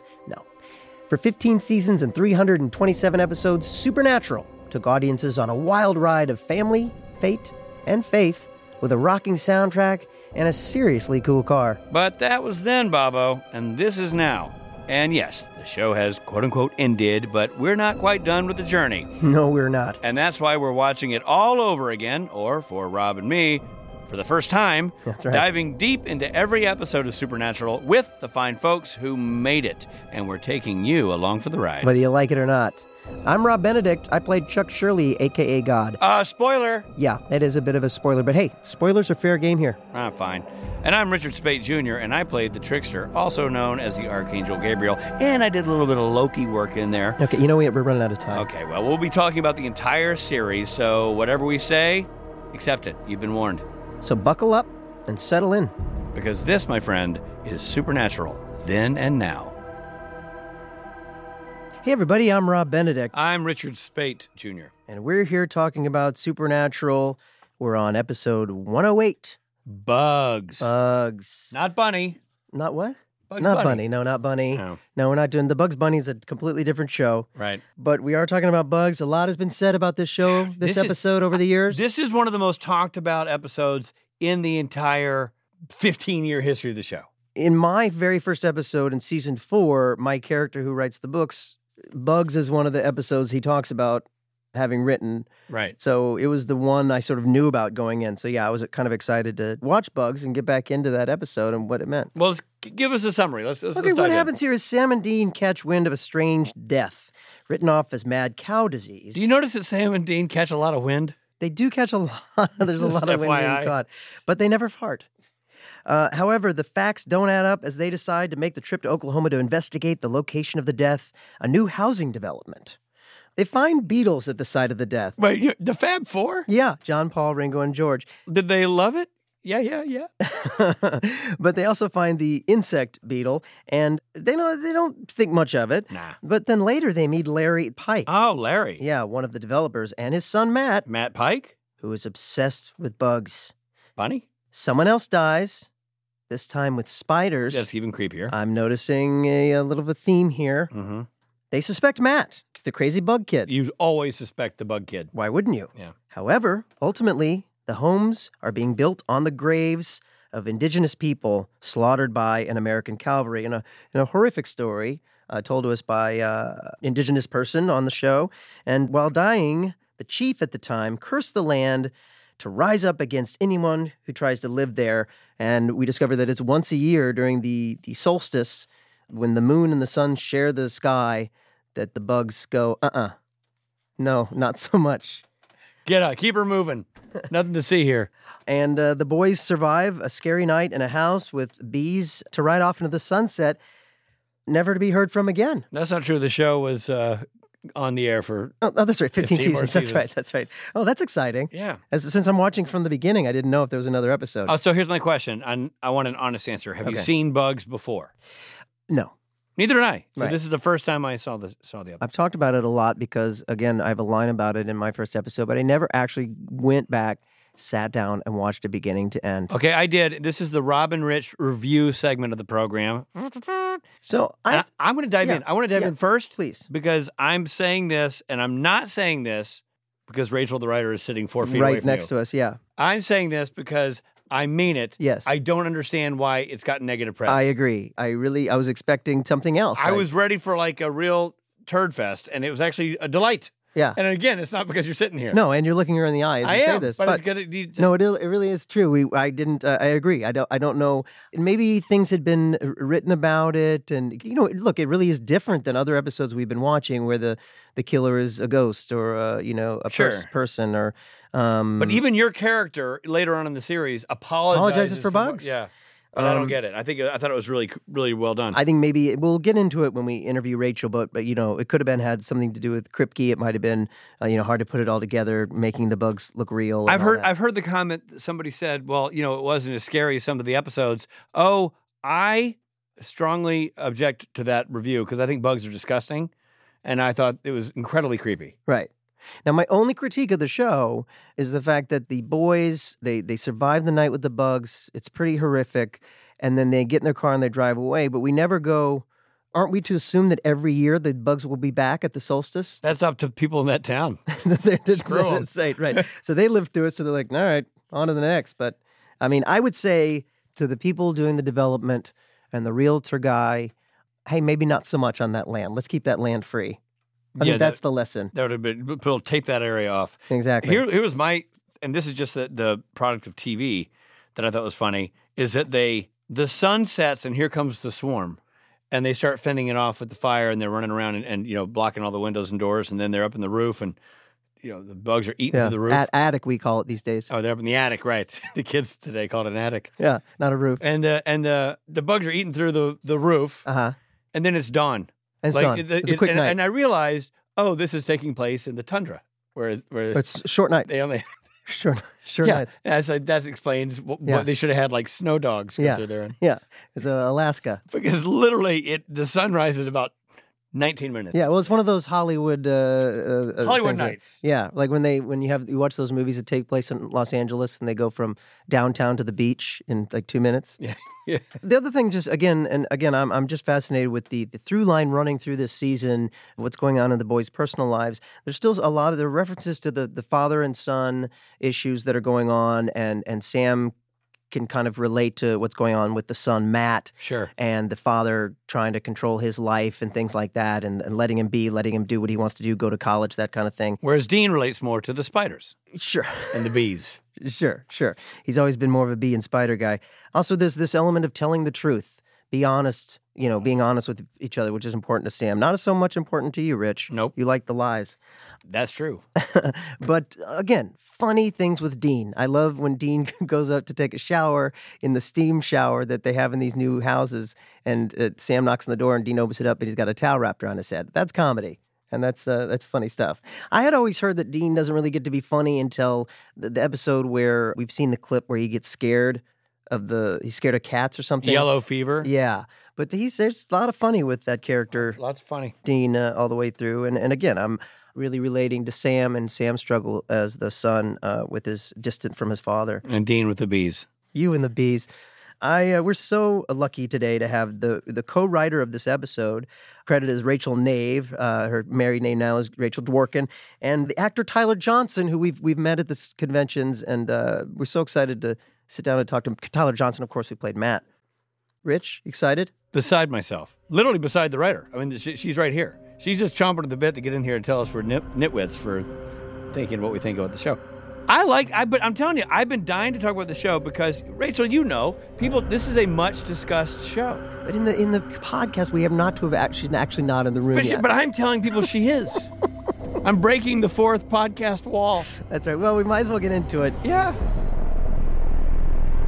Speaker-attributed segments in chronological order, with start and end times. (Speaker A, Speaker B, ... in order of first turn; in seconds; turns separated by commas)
Speaker A: 1.1-11.8, Speaker B: 11.9-19.1, Speaker A: 19.2-20.0, Speaker B: 20.0-31.9, Speaker A: 25.1-25.5, Speaker A: 31.8-36.0, Speaker B: 36.0-36.9, Speaker A: 37.0-39.8, Speaker B: 39.9-47.2, Speaker A: 47.2-48.5, Speaker B: 48.3-53.6, Speaker A: 54.0-55.7, Speaker B: 56.1-59.5, Speaker A: 61.8-63.1, Speaker B: 63.1-64.7, Speaker A: 64.9-69.4, Speaker B: 69.7-70.7, Speaker A: 70.6-71.5, Speaker B: 71.5-72.2, Speaker A: 72.5-81.9, Speaker B: 73.3-73.8, Speaker B: 74.5-74.8, Speaker B: 77.4-77.6, Speaker B: 80.3-81.0, Speaker B: 81.7-87.1, Speaker A: 87.3-102.1, Speaker B: 95.5-95.7, Speaker B: 102.2-104.3, Speaker A: 103.7-109.3, Speaker B: 109.1-111.1, Speaker A: 111.4-115.0, Speaker B: 112.8-113.7, Speaker A: 115.8-122.8, Speaker A: 123.4-125.2, Speaker B: 125.2-126.5, Speaker A: 126.5-128.1, Speaker B: 128.3-130.1, Speaker A: 130.2-138.1, Speaker B: 138.1-138.8, Speaker A: 138.8-140.8, Speaker B: 140.9-141.5, Speaker A: 141.8-143.5, Speaker B: 144.0-144.2, Speaker A: 144.5-145.7, Speaker A: 146.3-147.7, Speaker B: 147.5-148.3, Speaker A: 148.3-150.7, Speaker B: 150.7-151.1, Speaker A: 151.5-153.5, Speaker B: 153.5-155.1, Speaker A: 155.1-183.1, Speaker A: 184.0-185.2, Speaker B: 185.8-188.1, Speaker A: 188.5-193.6, Speaker A: 194.5-195.7, Speaker B: 195.7-198.5, Speaker A: 198.6-204.5, Speaker B: 199.2-200.1, Speaker B: 201.5-201.8, Speaker B: 204.5-208.1, Speaker A: 206.8-207.1, Speaker B: 209.6-212.0, Speaker A: 212.0-219.5, Speaker B: 219.5-223.8, Speaker A: 224.0-224.6, Speaker B: 224.5-232.1, Speaker A: 225.2-226.7, Speaker A: 231.4-232.6, Speaker B: 232.8-237.5, Speaker A: 235.0-235.3, Speaker A: 237.3-240.0, Speaker B: 239.8-245.4, Speaker A: 245.3-247.2, Speaker B: 246.4-247.8, Speaker A: 247.8-262.0, Speaker B: 259.9-260.3, Speaker B: 261.8-268.6, Speaker A: 264.5-265.5, Speaker A: 266.1-266.6, Speaker A: 268.5-277.3, Speaker B: 276.9-286.3, Speaker B: 286.8-288.5, Speaker A: 289.4-302.8, Speaker B: 302.8-304.2, Speaker A: 304.3-313.7, Speaker B: 304.9-306.0, Speaker A: 314.2-316.8, Speaker A: 317.4-318.3, Speaker B: 317.4-317.8, Speaker B: 318.3-328.4, Speaker A: 320.3-320.8, Speaker B: 328.9-333.9, Speaker B: 334.6-336.1, Speaker A: 335.5-337.3, Speaker B: 337.3-339.9, Speaker A: 340.0-340.8, Speaker B: 340.8-343.6, Speaker A: 343.6-343.9, Speaker B: 344.3-350.2, Speaker A: 345.4-346.6, Speaker A: 350.1-350.9, Speaker B: 350.9-351.2, Speaker A: 351.7-352.7, Speaker B: 352.4-356.3, Speaker A: 355.8-357.8, Speaker B: 357.9-360.1, Speaker B: 360.7-361.4, Speaker A: 361.3-370.8, Speaker B: 363.6-364.4, Speaker B: 370.8-371.4, Speaker A: 371.6-383.9, Speaker A: 384.5-394.0, Speaker B: 387.2-387.5, Speaker B: 394.0-395.8, Speaker A: 395.9-396.7, Speaker B: 396.5-397.2, Speaker A: 397.4-408.1, Speaker B: 408.7-409.2, Speaker A: 409.4-431.7, Speaker B: 431.4-432.3, Speaker A: 432.2-435.2, Speaker B: 434.9-435.7, Speaker A: 435.8-443.0, Speaker B: 443.1-444.1, Speaker A: 444.3-445.1, Speaker A: 445.6-461.0, Speaker A: 461.8-462.7, Speaker B: 462.9-469.1, Speaker B: 469.7-477.5, Speaker A: 477.6-481.1, Speaker B: 480.7-482.5, Speaker B: 483.2-485.3, Speaker A: 485.3-487.0, Speaker B: 487.0-487.4